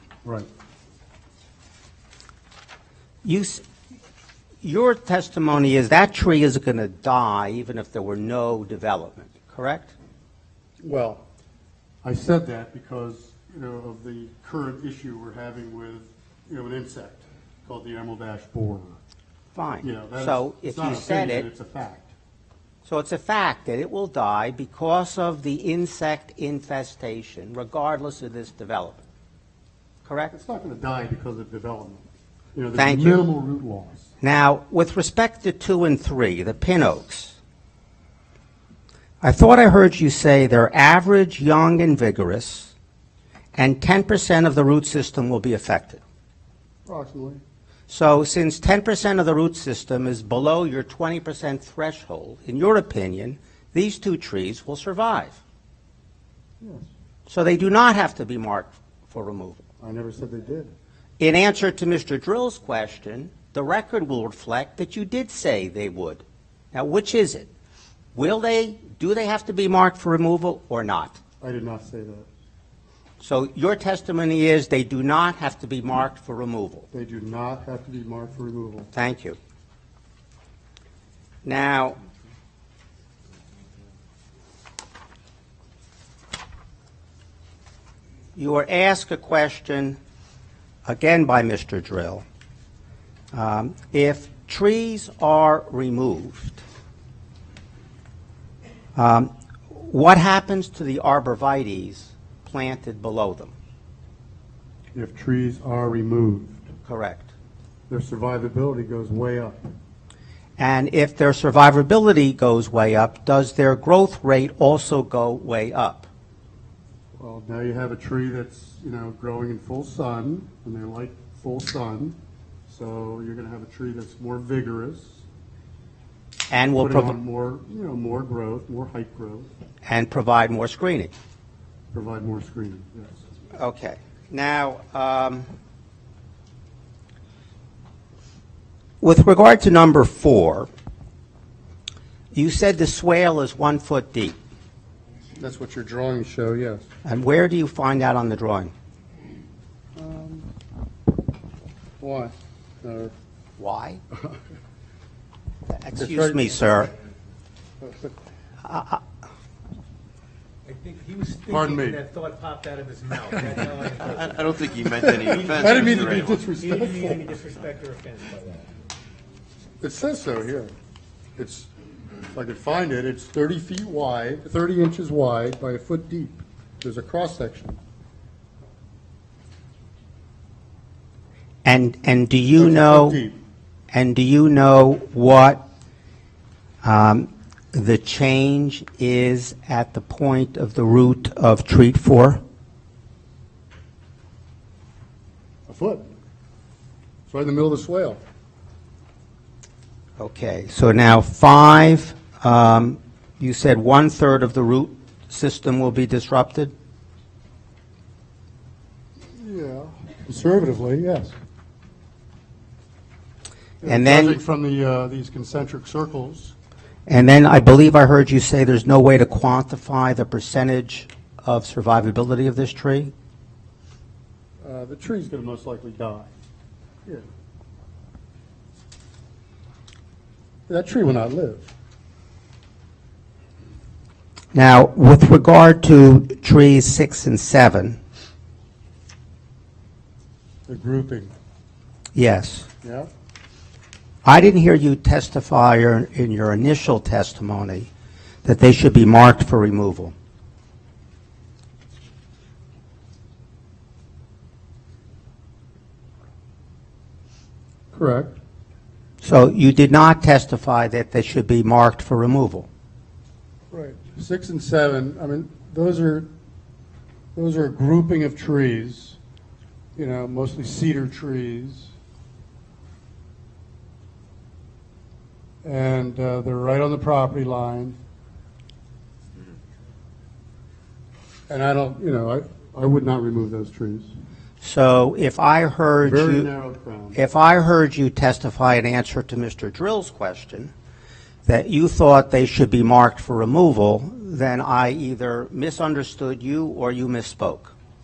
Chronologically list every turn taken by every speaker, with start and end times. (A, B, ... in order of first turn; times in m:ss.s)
0:03.2-0:03.6 A
0:04.6-0:09.9 A
0:10.8-0:11.2 B
0:12.0-0:19.0 B
0:19.6-0:21.5 A
0:19.8-0:22.1 B
0:22.8-0:29.0 A
0:30.0-0:30.3 A
0:30.3-0:34.1 B
0:32.8-0:33.2 A
0:34.2-0:37.4 A
0:39.2-0:42.7 A
0:43.6-0:46.0 A
0:46.9-0:47.4 B
0:47.9-0:55.4 A
0:56.6-0:56.9 B
0:57.3-0:59.6 A
0:59.8-1:00.7 B
1:01.2-1:07.4 A
1:08.2-1:11.2 A
1:11.4-1:12.3 B
1:13.2-1:16.9 A
1:16.9-1:18.9 B
1:18.9-1:19.4 A
1:21.4-1:22.0 A
1:28.4-1:30.0 A
1:30.9-1:32.2 A
1:33.3-1:36.6 A
1:39.0-1:43.5 A
1:44.9-1:46.7 B
1:46.9-1:47.3 A
1:47.9-1:49.6 B
1:50.6-1:56.1 A
1:57.2-2:05.2 B
2:06.5-2:07.2 A
2:06.8-2:09.5 B
2:09.9-2:11.1 A
2:11.9-2:13.2 B
2:13.6-2:15.5 A
2:19.0-2:20.7 A
2:22.3-2:24.4 A
2:25.4-2:26.8 B
2:27.0-2:28.7 A
2:30.0-2:30.5 B
2:32.0-2:33.1 B
2:33.6-2:34.0 A
2:35.7-2:36.9 A
2:36.0-2:36.5 B
2:37.8-2:38.2 B
2:38.6-2:39.0 A
2:40.7-2:44.4 C
2:41.5-2:42.0 B
2:44.2-2:46.4 D
2:45.4-2:45.8 C
2:45.4-2:47.3 B
2:46.6-2:48.7 C
2:49.8-2:50.7 B
2:51.4-2:51.7 B
2:52.3-2:57.8 B
3:01.6-3:03.2 A
3:02.6-3:03.4 B
3:03.9-3:05.6 A
3:06.8-3:12.4 A
3:15.7-3:16.1 B
3:17.3-3:18.2 B
3:20.2-3:26.7 A
3:29.3-3:31.4 B
3:33.8-3:36.6 B
3:33.8-3:34.4 A
3:37.1-3:43.1 A
3:44.6-3:46.3 B
3:50.7-3:51.7 B
3:54.5-3:58.0 A
4:00.7-4:01.3 B
4:02.2-4:02.7 A
4:02.8-4:03.1 B
4:04.2-4:07.9 A
4:08.4-4:10.1 A
4:17.9-4:18.4 B
4:19.2-4:22.7 A
4:23.7-4:26.3 B
4:27.4-4:29.2 B
4:30.0-4:31.9 B
4:35.6-4:38.0 B
4:41.5-4:44.1 B
4:44.6-4:46.5 A
4:46.0-4:47.2 B
4:47.2-4:50.7 A
4:51.5-4:57.7 A